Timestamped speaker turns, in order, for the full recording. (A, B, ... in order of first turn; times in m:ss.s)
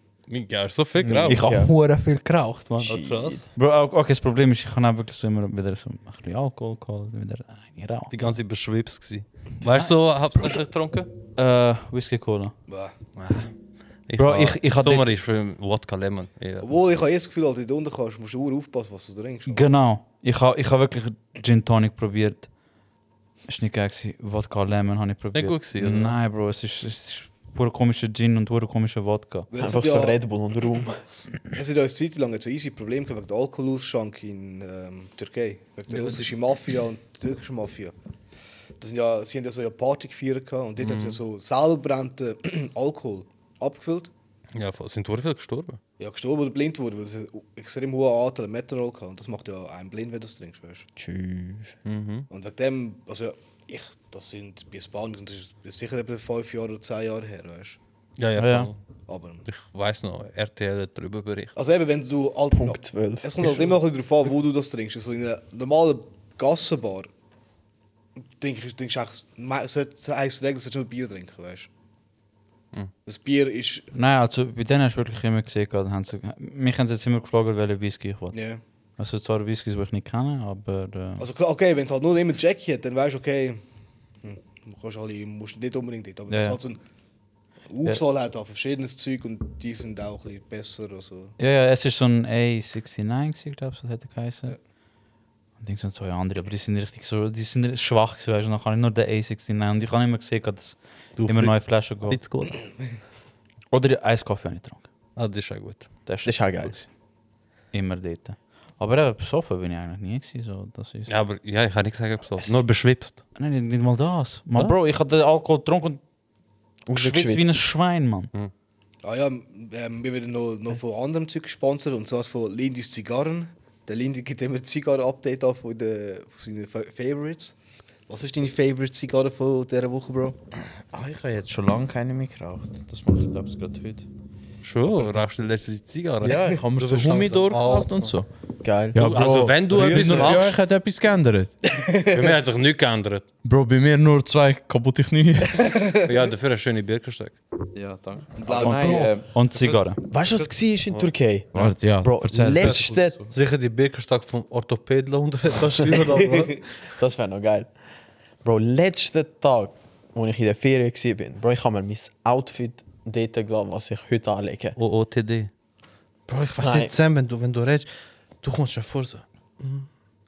0:00.3-0:01.6 A
0:01.0-0:01.7 B
0:01.2-0:01.9 C
0:02.6-0:03.4 A
0:02.8-0:03.4 B
0:03.6-0:08.1 C
0:08.1-0:11.1 A
0:11.4-0:12.5 C
0:12.7-0:12.9 D
0:13.2-0:13.5 A
0:14.1-0:16.7 A
0:14.2-0:15.1 C
0:16.6-0:19.7 D
0:19.5-0:22.5 C
0:23.5-0:29.5 C
0:25.3-0:26.2 A
0:29.5-0:30.2 D
0:29.6-0:31.0 B
0:31.5-0:37.9 D
0:38.8-0:44.1 D
0:44.5-0:45.8 A
0:46.0-0:50.9 D
0:51.0-0:51.7 B
0:51.8-0:52.3 A
0:52.3-0:57.8 D
0:58.2-0:58.8 A
0:58.4-0:58.7 C
0:59.1-0:59.4 D
0:59.5-1:01.5 A
1:01.6-1:07.1 D
1:02.5-1:03.7 B
1:08.4-1:11.7 D
1:13.0-1:13.9 D
1:13.9-1:18.4 C
1:18.3-1:18.6 D
1:19.0-1:21.2 C
1:21.2-1:23.6 D
1:24.2-1:26.8 D
1:26.3-1:26.6 C
1:27.7-1:31.3 D
1:31.4-1:34.6 C
1:35.6-1:42.2 C
1:41.2-1:41.5 A
1:42.1-1:42.6 A
1:43.7-1:44.8 C
1:45.2-1:45.9 A
1:46.0-1:46.9 C
1:46.2-1:46.8 B
1:47.7-1:51.1 C
1:51.1-1:53.2 A
1:53.3-1:56.0 C
1:56.9-1:57.5 B
1:56.9-1:58.3 C
1:59.0-2:07.5 D
2:08.1-2:10.4 D
2:10.9-2:14.0 E
2:14.6-2:16.4 A
2:16.2-2:18.3 E
2:16.8-2:18.1 F
2:18.6-2:19.0 B
2:18.9-2:21.5 E
2:18.9-2:20.6 A
2:21.7-2:22.2 D
2:22.1-2:23.2 A
2:23.4-2:25.8 E
2:25.7-2:26.0 D
2:26.0-2:27.4 A
2:27.7-2:29.1 E
2:28.4-2:29.2 D
2:28.5-2:30.0 C
2:28.8-2:29.1 B
2:30.1-2:33.3 B
2:31.6-2:33.1 E
2:32.5-2:36.6 F
2:36.9-2:37.7 B
2:38.4-2:44.8 B
2:44.8-2:45.5 A
2:46.3-2:47.9 F
2:46.6-2:47.0 B
2:48.4-2:49.9 F